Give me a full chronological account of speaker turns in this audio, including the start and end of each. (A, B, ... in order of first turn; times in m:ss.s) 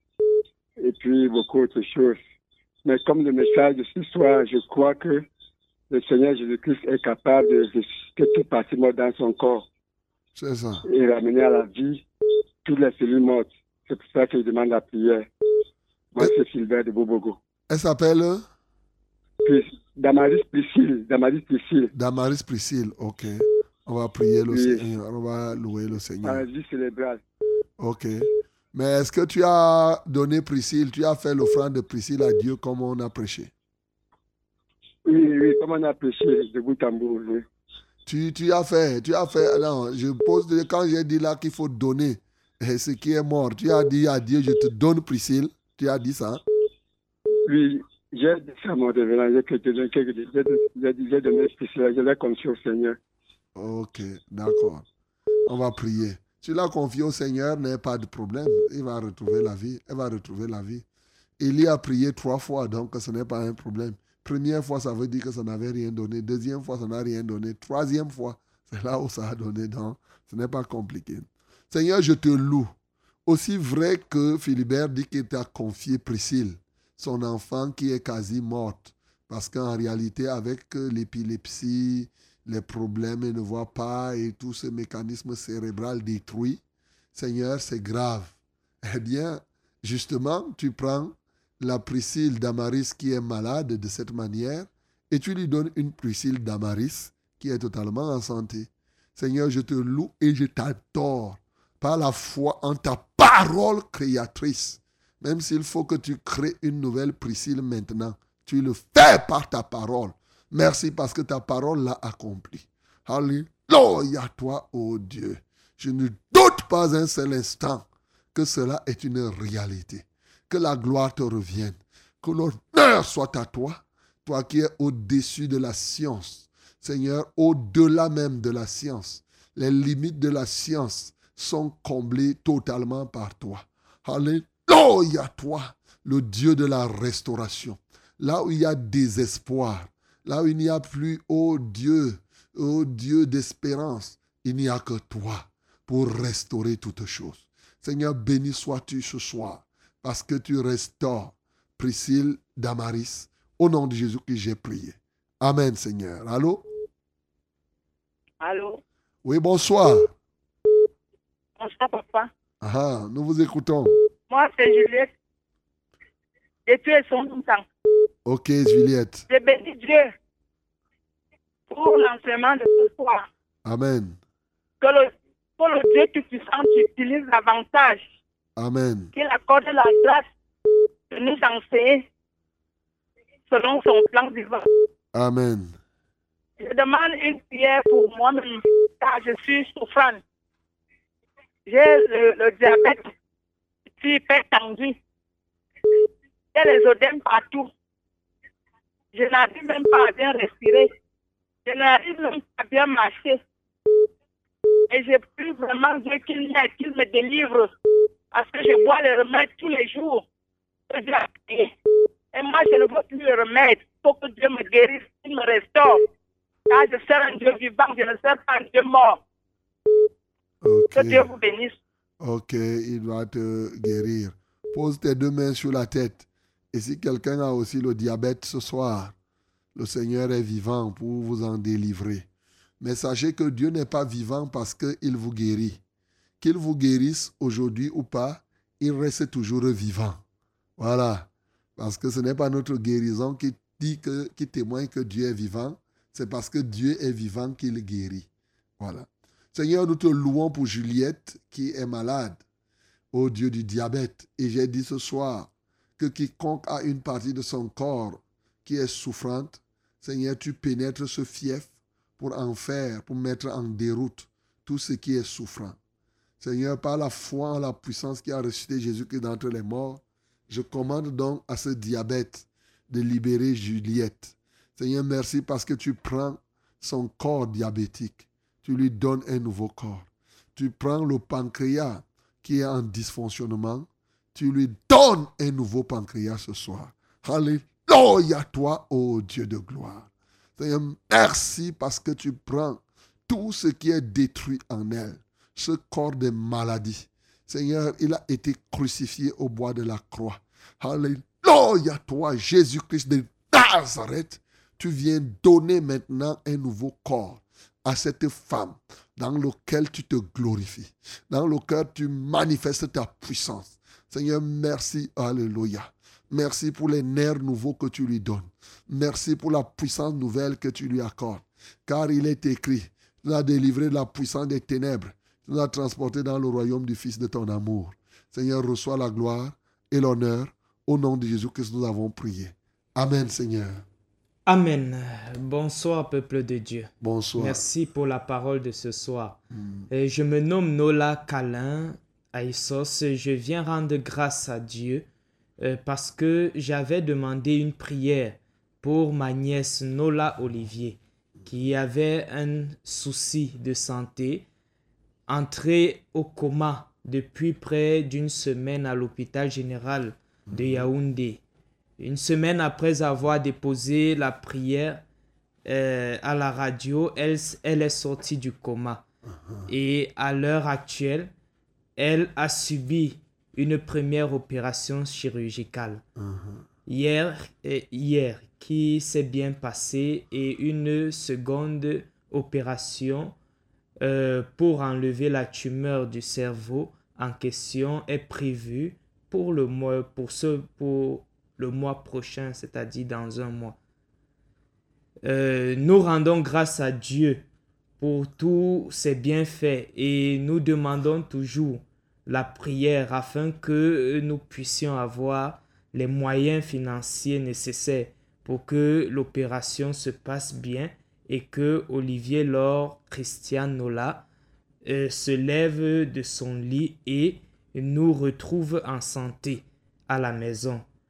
0:00.8-0:02.2 A
0:02.8-0:05.3 A
0:05.9-0:09.7 A
0:10.4-0:10.8 B
0:10.8-0:12.0 A
0:12.6-0:15.3 A
0:16.2-0:17.4 A
0:17.7-0:18.4 B
0:19.4-0:21.9 A
0:21.9-0:26.4 B
0:24.5-0:24.8 A
0:26.2-0:27.2 A
0:27.8-0:33.5 B
0:35.1-0:37.5 A
0:38.1-0:46.4 B
0:47.5-0:53.0 A
0:53.6-0:54.9 B
0:55.5-1:00.8 B
1:01.4-1:12.7 B
1:13.3-1:26.6 B
1:27.2-2:36.7 B
2:38.4-2:38.8 C
2:39.2-2:40.1 B
2:41.6-2:42.3 C
2:42.6-2:44.0 B
2:44.3-2:45.1 C
2:46.7-2:47.6 C
2:48.3-2:49.3 B
2:49.3-2:50.1 C
2:51.7-2:53.2 C
2:53.7-2:54.2 B
2:54.8-2:58.1 C
2:58.6-2:59.1 B
2:59.2-3:00.3 C
3:01.1-3:02.1 C
3:03.5-3:04.7 C
3:05.1-3:05.8 B
3:06.6-3:10.2 C
3:11.7-3:13.1 C
3:14.0-3:15.0 C
3:16.5-3:17.7 C
3:19.1-3:20.9 C
3:21.7-3:23.4 C
3:24.9-3:27.7 C
3:28.3-3:30.2 C
3:30.9-3:31.7 C
3:32.3-3:36.0 C
3:36.7-3:39.2 C
3:40.6-3:41.3 B
3:40.9-3:41.8 C
3:42.2-3:49.2 B
3:49.8-3:52.3 B
3:52.8-3:55.8 B
3:56.4-4:00.2 B
4:00.8-4:08.3 B
4:08.8-4:12.4 B
4:13.1-4:25.8 B
4:26.4-5:33.8 B
5:34.5-5:39.4 D
5:37.0-5:37.6 B
5:39.5-5:39.9 B
5:39.9-5:45.1 D
5:45.6-5:54.5 D
5:55.3-6:01.4 D
6:00.5-6:00.9 B
6:02.0-6:05.0 D
6:05.7-6:09.0 D
6:09.3-6:09.7 B
6:09.7-6:11.3 D
6:12.0-6:16.0 D
6:16.2-6:16.6 B
6:16.9-6:23.4 D
6:24.0-6:33.8 D
6:35.2-6:37.4 D
6:38.0-6:54.3 D
6:54.8-7:00.9 D